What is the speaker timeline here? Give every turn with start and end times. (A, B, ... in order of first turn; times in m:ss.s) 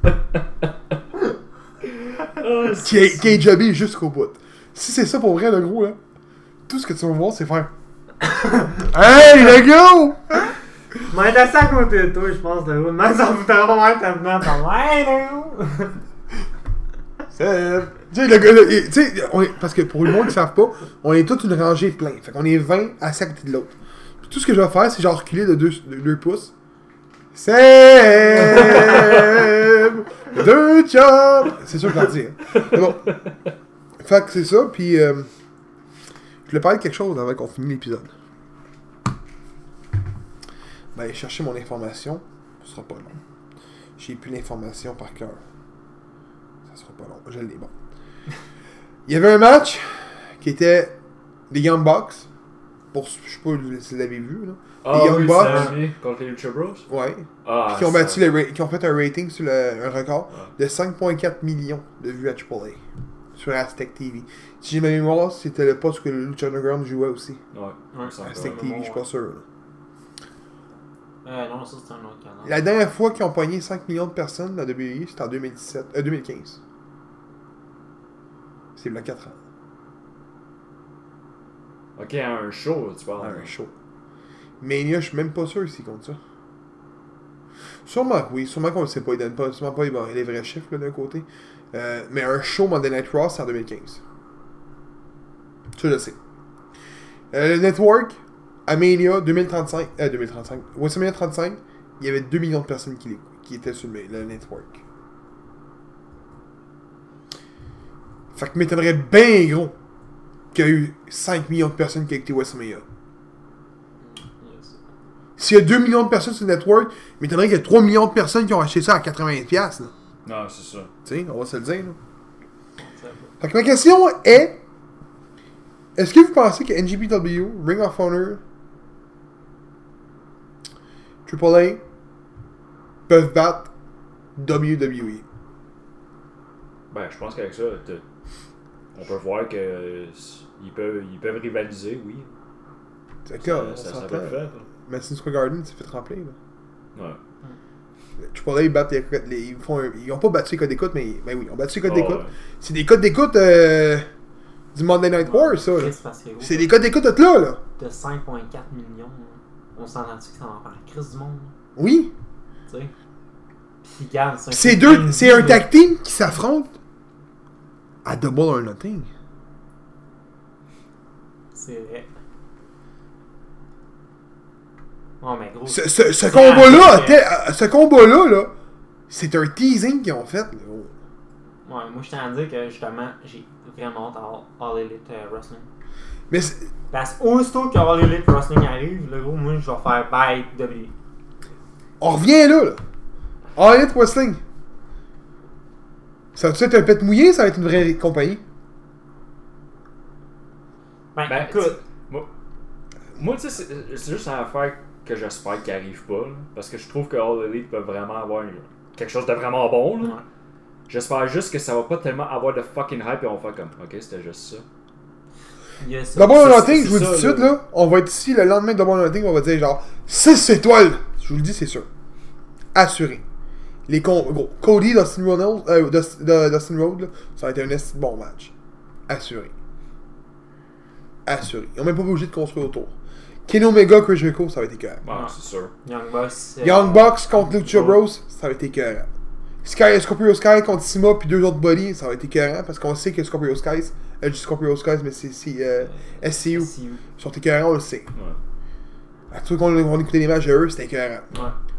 0:02.2-0:03.4 A
0:02.8-0:06.0 B
0:06.7-0:07.7 B
0:08.8-0:10.4 B
0:11.1-0:16.0 C
0:17.3-0:26.5 B
0:27.3-0:33.2 B
0:32.7-0:33.3 A
0:34.0-0:35.3 B
0:36.5-0:38.1 B
0:40.9-0:43.2 B
0:44.0-0:45.4 B
0:46.7-0:47.7 B
0:49.0-0:51.0 B
0:51.5-0:52.3 B
0:52.9-0:55.7 B
0:54.8-0:56.8 A
0:55.4-0:55.7 C
0:56.9-1:02.8 B
0:57.4-0:58.2 A
1:03.3-1:07.4 B
1:07.5-1:08.7 A
1:07.9-1:09.0 C
1:08.2-1:09.4 B
1:11.2-1:12.6 C
1:12.4-1:16.6 B
1:18.8-1:19.4 B
1:22.0-1:23.5 A
1:23.2-1:23.7 B
1:24.6-1:26.2 B
1:27.8-1:34.0 B
1:35.7-1:36.2 B
1:37.3-1:44.8 B
1:48.3-1:49.7 B
1:50.5-1:52.8 B
1:54.0-1:54.8 C
1:55.4-1:59.9 B
2:00.2-2:00.9 A
2:01.0-2:02.0 B
2:02.8-2:03.3 C
2:03.4-2:04.6 B
2:06.0-2:08.4 B
2:11.2-2:11.8 B
2:13.1-2:13.7 B
2:14.4-2:15.2 B
2:16.9-2:18.0 A
2:18.9-2:22.3 A
2:23.2-2:26.3 B
2:23.4-2:24.6 A
2:26.9-2:27.2 A
2:28.2-2:34.1 B
2:31.8-2:32.3 A
2:34.7-2:37.6 B
2:35.6-2:36.7 C
2:37.8-2:41.5 C
2:41.8-2:42.1 B
2:43.8-2:45.7 C
2:44.5-2:46.7 B
2:48.0-2:49.1 B
2:51.5-2:52.1 C
2:55.2-2:57.2 C
2:55.7-2:58.5 B
2:59.1-3:00.9 B
3:01.6-3:05.7 C
3:06.3-3:06.7 B
3:06.9-3:10.9 C
3:12.0-3:12.8 B
3:13.6-3:14.4 B
3:16.3-3:18.4 B
3:21.1-3:21.8 C
3:21.2-3:22.3 A
3:23.1-3:30.2 A
3:30.9-3:34.6 A
3:35.8-3:36.8 C
3:36.1-3:41.9 B
3:36.4-3:37.5 A
3:42.7-3:43.2 B
3:43.9-3:48.5 B
3:49.1-3:49.5 B
3:51.2-3:52.9 B
3:53.5-3:55.0 B
3:55.0-3:55.7 A
3:55.1-3:57.2 C
3:56.6-3:59.1 B
3:57.6-3:58.0 A
3:59.6-4:08.1 B
4:05.8-4:07.0 C
4:08.1-4:08.4 A
4:09.3-4:11.3 B